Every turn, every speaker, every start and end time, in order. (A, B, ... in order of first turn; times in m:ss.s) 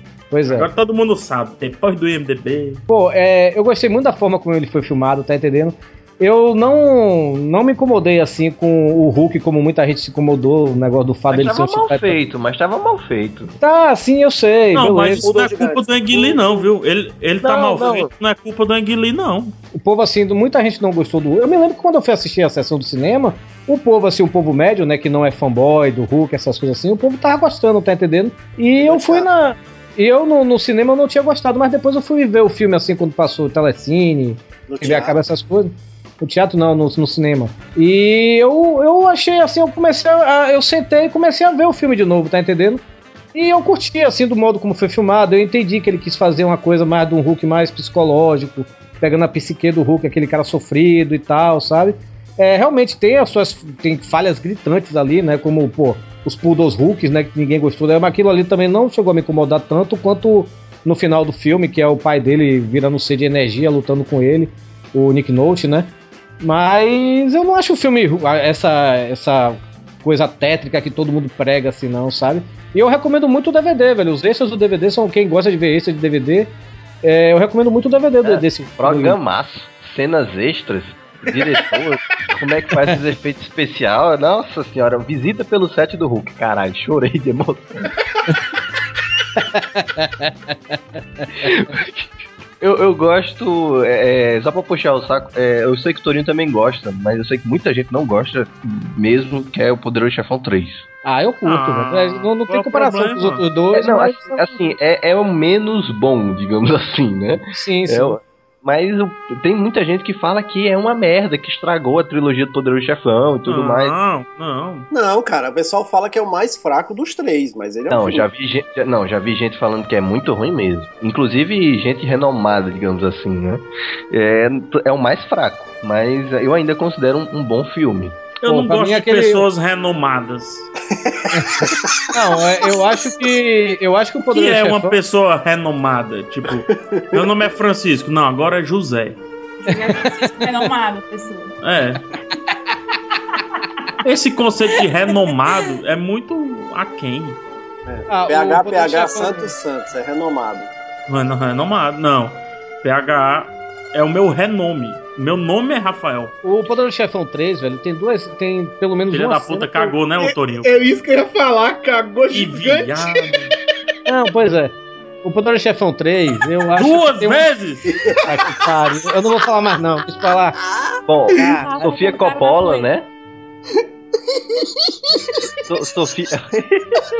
0:00.3-0:00.7 A
0:00.5-0:02.8 B
0:02.9-0:12.2 A
0:11.3-0:13.5 C
0:13.6-0:15.3 A
0:14.7-0:19.6 B
0:15.2-0:16.7 D
0:17.4-0:18.1 C
0:19.7-0:42.8 A
0:28.8-0:29.3 D
0:34.7-0:35.2 D
0:43.3-1:16.5 A
1:17.0-1:19.2 A
1:18.2-1:27.9 C
1:29.5-1:30.3 A
1:31.4-1:40.9 C
1:41.0-1:44.7 A
1:41.4-1:43.5 B
1:43.7-1:54.0 C
1:47.5-1:48.2 A
1:53.4-1:54.9 B
1:54.9-1:58.3 D
1:57.9-2:08.3 C
2:08.4-2:10.7 B
2:08.4-2:09.5 A
2:11.3-2:11.8 D
2:12.1-2:15.0 A
2:14.3-2:19.2 B
2:16.7-2:17.3 D
2:19.6-2:21.5 E
2:21.6-2:22.0 B
2:24.0-2:27.4 B
2:25.0-2:25.7 E
2:27.8-2:30.7 D
2:28.1-2:29.5 A
2:31.1-2:36.3 B
2:36.4-2:40.0 A
2:39.1-2:40.7 B
2:40.2-2:43.4 F
2:42.3-2:43.5 B
2:44.0-2:47.5 A
2:46.7-2:47.9 B
2:47.9-2:48.3 D
2:48.2-2:50.6 A
2:50.6-2:51.0 D
2:51.1-2:53.1 C
2:51.3-2:51.7 A
2:51.4-2:52.9 E
2:55.7-2:57.0 C